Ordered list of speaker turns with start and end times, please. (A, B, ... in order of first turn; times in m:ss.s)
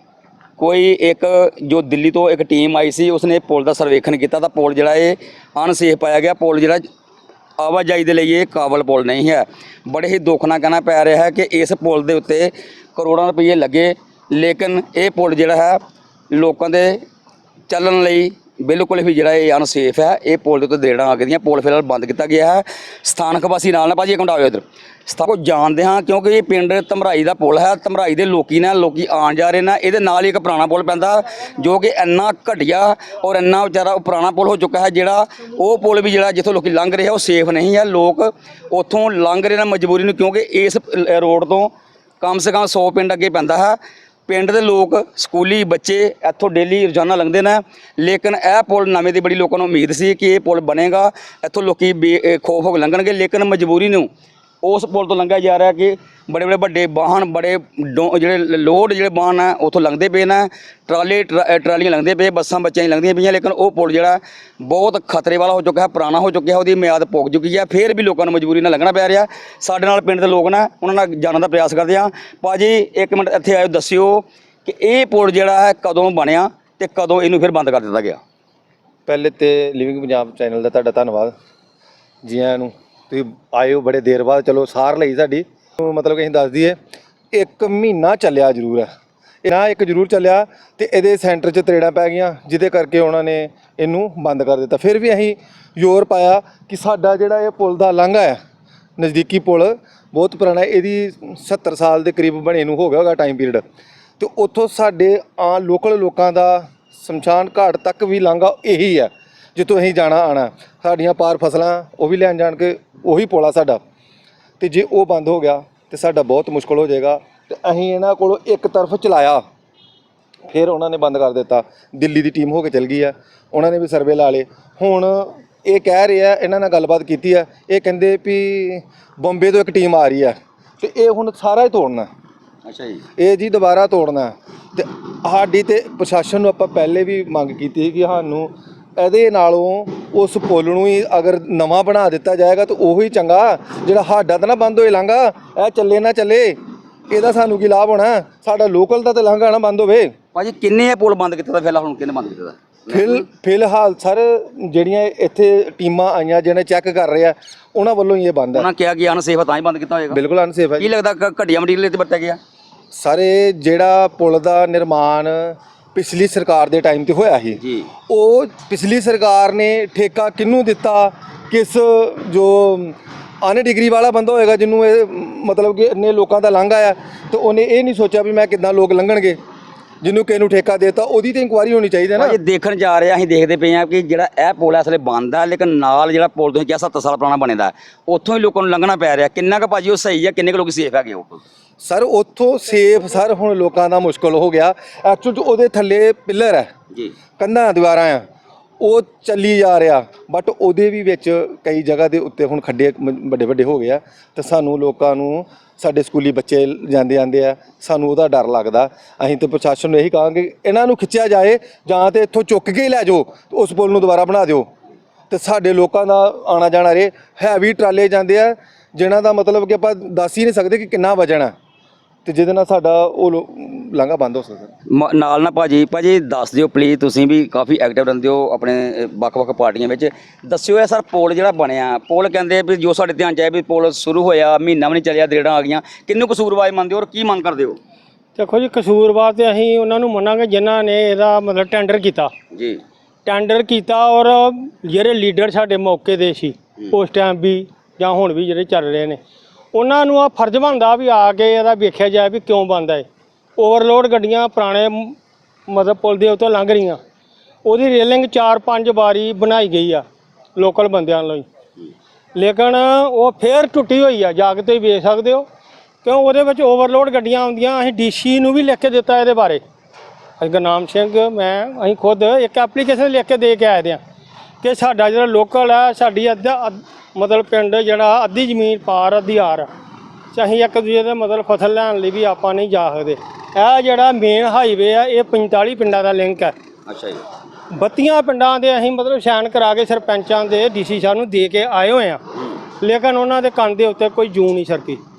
0:00.6-0:06.8 A
0:07.6-0:15.8 A
0:16.3-0:17.0 A
0:17.7-0:43.8 A
0:44.3-0:54.1 A
0:54.6-1:18.2 A
1:19.1-1:21.3 B
1:22.2-1:26.8 B
1:27.3-1:28.9 B
1:29.4-1:38.4 B
1:39.0-1:43.6 B
1:44.2-1:53.8 B
1:54.6-1:59.4 B
2:00.5-2:12.1 B
2:12.7-2:13.0 A
2:13.2-2:26.6 B
2:27.1-2:30.1 B
2:30.3-2:33.2 A
2:32.9-2:38.7 B
2:38.5-2:40.2 A
2:40.1-2:40.9 B
2:40.8-2:42.4 A
2:42.9-2:59.4 B
2:47.6-2:47.9 A
3:00.0-3:02.4 B
3:02.2-3:11.4 A
3:11.8-3:16.7 B
3:17.4-3:18.2 B
3:18.8-3:34.7 B
3:35.3-3:41.5 B
3:42.2-3:44.7 B
3:44.9-3:57.8 A
3:58.4-4:02.3 C
4:02.5-4:02.8 A
4:03.3-4:09.2 C
4:09.8-4:13.0 C
4:13.6-4:15.1 C
4:15.7-4:17.0 C
4:17.6-4:20.0 C
4:20.6-4:21.4 C
4:22.4-4:25.4 C
4:26.0-4:29.6 C
4:30.4-4:34.0 C
4:34.6-4:39.6 C
4:40.3-4:46.5 C
4:46.9-4:47.2 A
4:47.8-4:52.2 C
4:52.8-4:55.0 C